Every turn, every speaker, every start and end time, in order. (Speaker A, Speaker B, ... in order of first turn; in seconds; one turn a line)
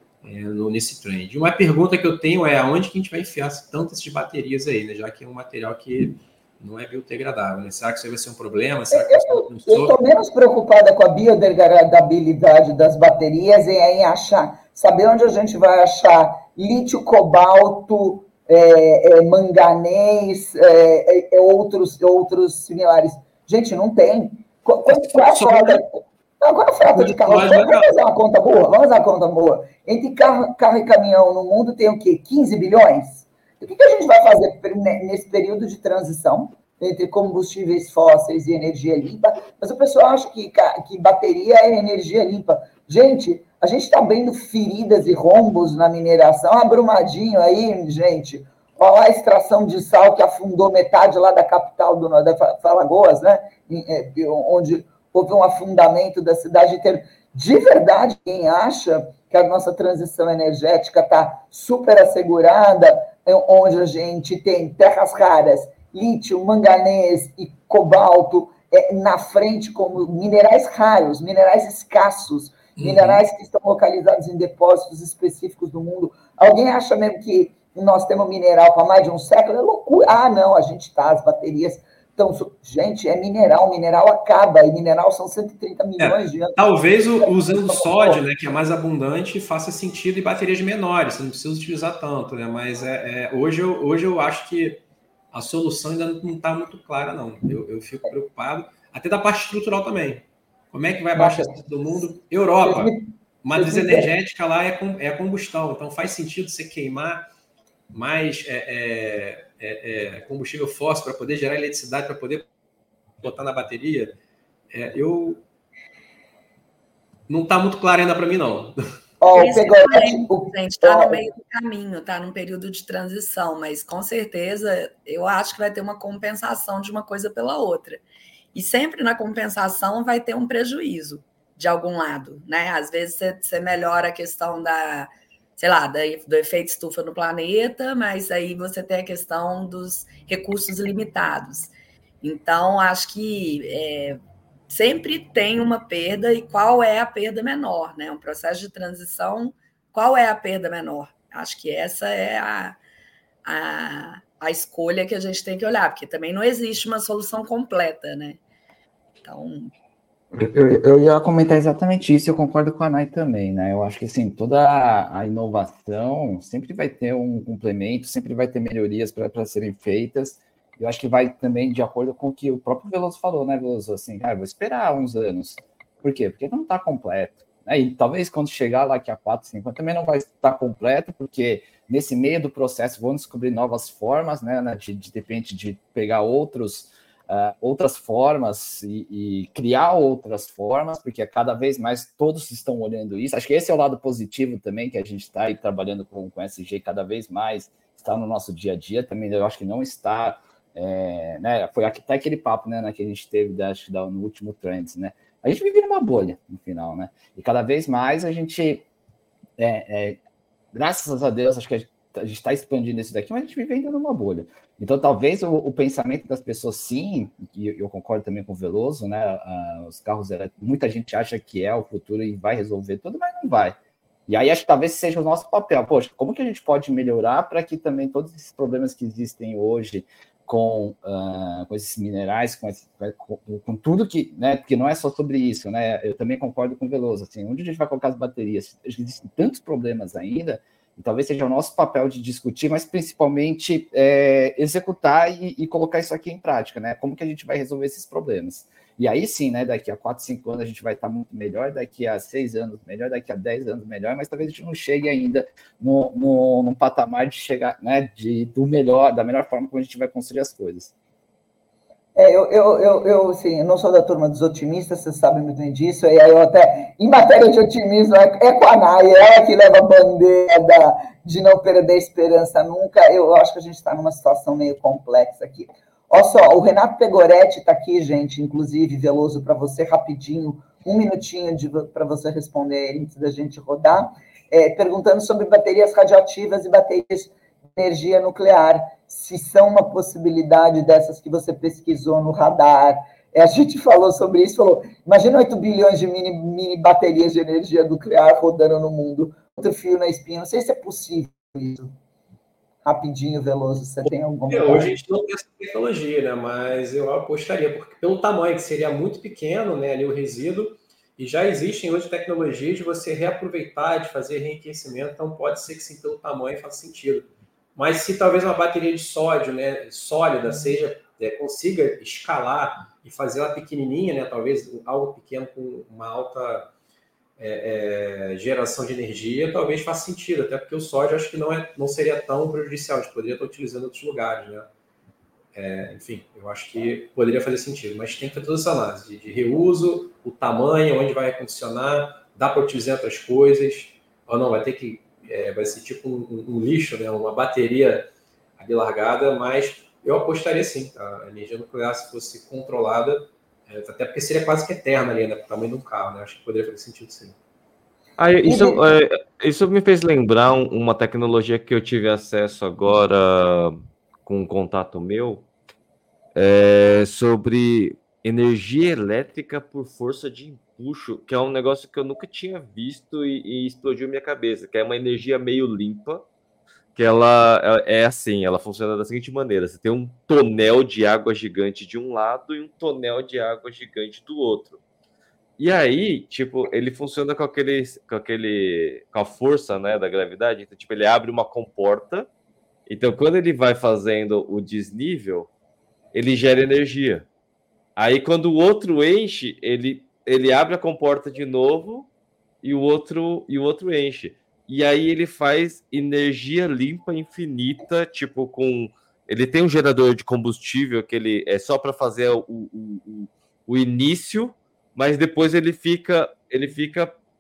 Speaker A: 0.2-9.9
Speaker B: 8.9-86.6
Speaker A: 24.9-25.8
Speaker A: 26.8-27.9
Speaker A: 72.8-73.2
Speaker A: 86.0-94.8
Speaker B: 87.2-88.2
Speaker A: 95.3-107.2
Speaker B: 101.1-102.1
Speaker B: 102.6-104.1
Speaker A: 107.9-112.5
Speaker A: 113.2-114.1
Speaker A: 114.7-115.4
Speaker A: 117.3-118.8
Speaker B: 119.2-121.2
Speaker C: 119.3-128.0
Speaker C: 128.5-152.8
Speaker C: 153.4-158.4
Speaker C: 159.2-159.7
Speaker D: 160.3-208.8
Speaker D: 209.6-210.2
Speaker D: 210.7-223.8
Speaker D: 224.3-260.9
Speaker B: 262.1-301.9
Speaker B: 302.8-304.9
Speaker A: 304.0-326.7
Speaker A: 327.4-334.7
Speaker A: 335.5-357.4
Speaker E: 358.2-365.4
Speaker B: 358.4-358.8
Speaker E: 366.3-376.2
Speaker E: 376.9-384.8
Speaker E: 385.6-392.3
Speaker E: 392.9-395.5
Speaker E: 396.1-397.3
Speaker E: 398.0-402.1
Speaker E: 402.6-417.1